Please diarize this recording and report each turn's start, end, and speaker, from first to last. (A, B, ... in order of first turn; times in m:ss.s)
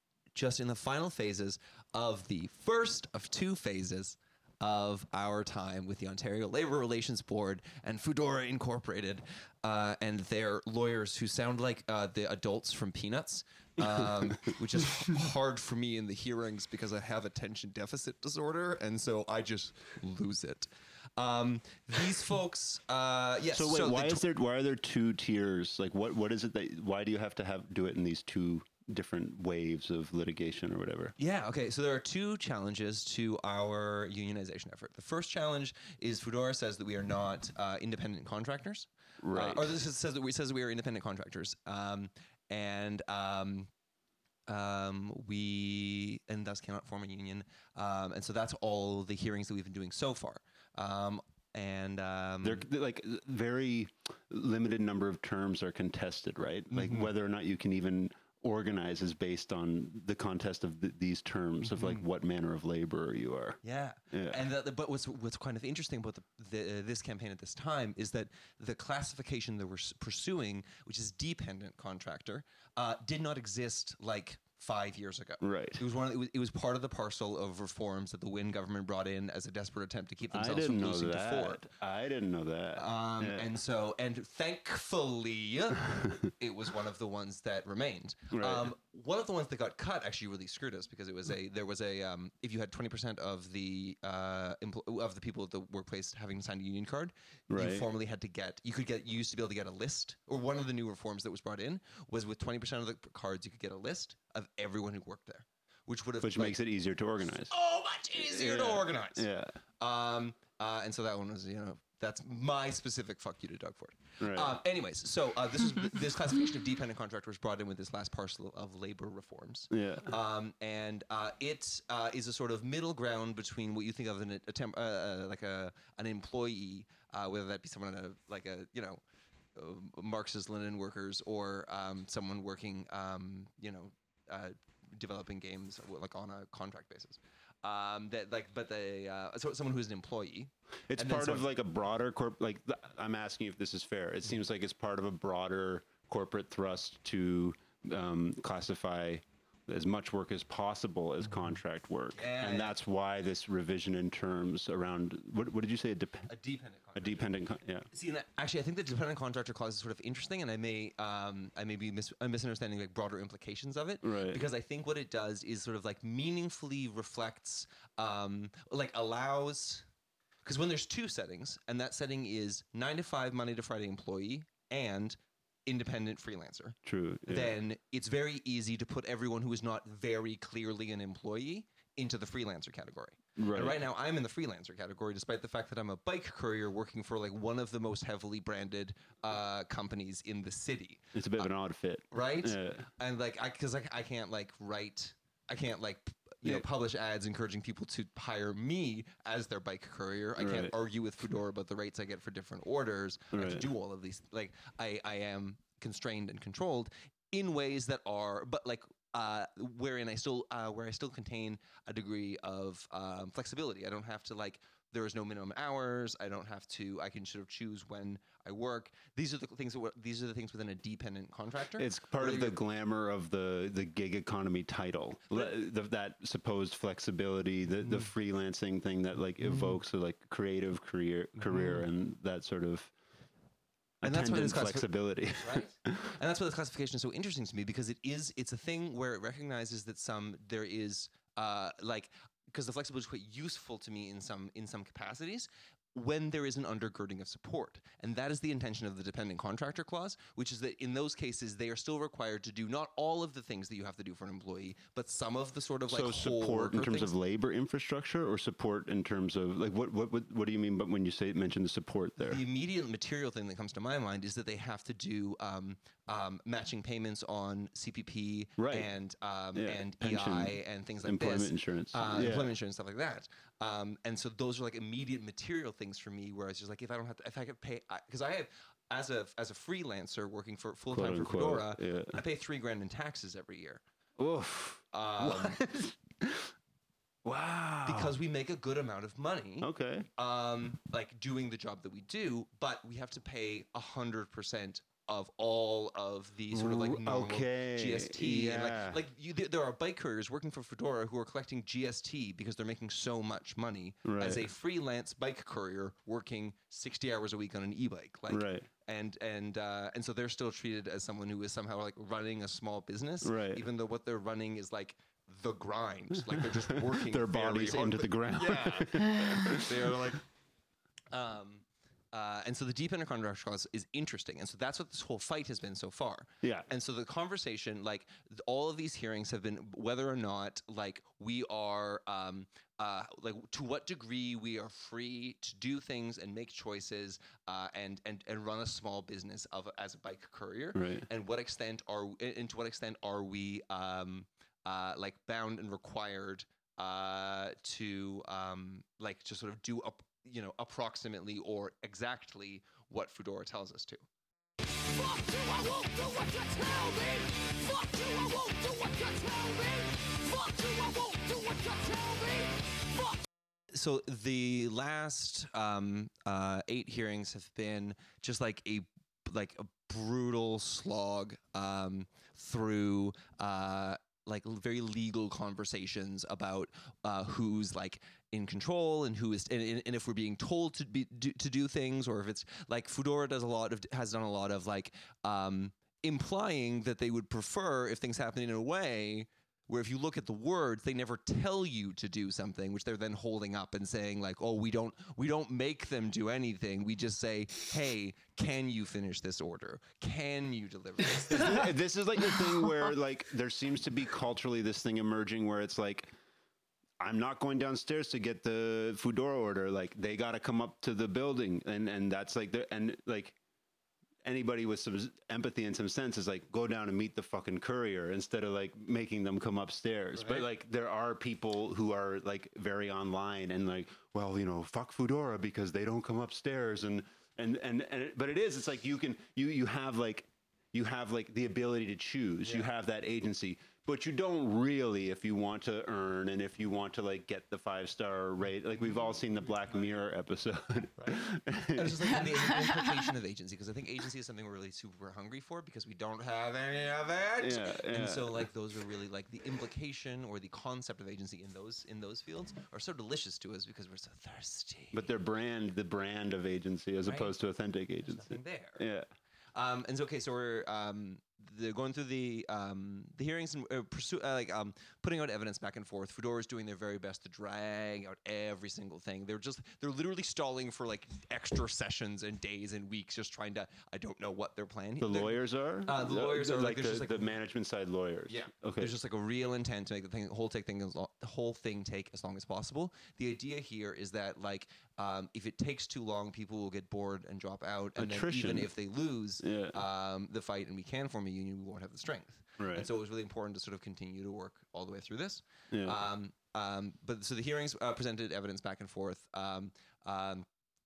0:00.3-0:24.2 A
0:13.8-0:14.5 B
0:23.5-0:31.1 B
0:31.2-0:43.7 A
0:39.2-0:39.7 B
0:44.5-0:52.7 A
0:52.4-1:04.4 B
0:56.7-0:57.1 A
1:01.6-1:02.0 A
1:03.6-1:21.6 A
1:15.4-1:15.8 B
1:20.3-1:23.4 B
1:22.8-1:46.6 A
1:25.9-1:26.2 B
1:28.3-1:28.7 B
1:37.5-1:37.9 B
1:46.2-1:47.5 B
1:47.5-1:49.2 A
1:48.1-1:49.6 B
1:49.8-2:09.0 A
1:54.2-1:54.6 B
1:59.7-2:00.1 B
2:09.6-2:21.5 A
2:20.9-2:36.3 B
2:32.1-2:32.8 A
2:36.3-2:37.3 A
2:37.0-2:37.9 B
2:37.9-2:49.8 A
2:44.0-2:44.4 B
2:50.4-3:11.5 A
2:56.8-2:57.6 B
3:03.4-3:03.8 B
3:11.1-3:12.9 B
3:12.1-3:42.6 A
3:20.4-3:20.7 B
3:23.3-3:23.7 B
3:41.8-3:52.9 B
3:47.8-3:48.1 A
3:49.4-3:49.8 A
3:51.4-3:51.8 A
3:54.0-3:56.1 B
3:54.0-4:17.1 A
4:15.9-4:22.4 B
4:22.2-4:43.8 A
4:28.6-4:28.9 B
4:29.6-4:32.5 B
4:40.9-4:42.2 B
4:44.2-4:46.5 B
4:44.9-4:45.6 A
4:47.2-4:48.2 B
4:47.8-5:20.2 A
4:49.6-4:50.1 B
4:56.5-4:59.0 B
5:04.0-5:04.5 B
5:08.3-5:08.7 B
5:13.2-5:13.6 B
5:16.3-5:20.1 B
5:21.1-5:54.0 A
5:26.4-5:26.7 B
5:40.7-5:41.0 B
5:55.2-5:59.7 C
6:00.4-6:02.4 C
6:03.7-6:41.6 A
6:41.3-6:46.1 B
6:47.0-6:53.4 B
6:54.2-7:22.3 B
7:00.1-7:00.4 A
7:12.4-7:12.7 A
7:21.7-7:35.0 A
7:27.4-7:28.5 B
7:34.9-7:39.1 B
7:37.0-7:37.3 A
7:38.0-7:38.8 A
7:39.5-7:57.3 A
7:55.0-7:59.0 B
7:58.3-8:20.5 A
8:08.0-8:08.7 B
8:09.4-8:09.8 B
8:12.6-8:12.9 B
8:15.7-8:16.0 B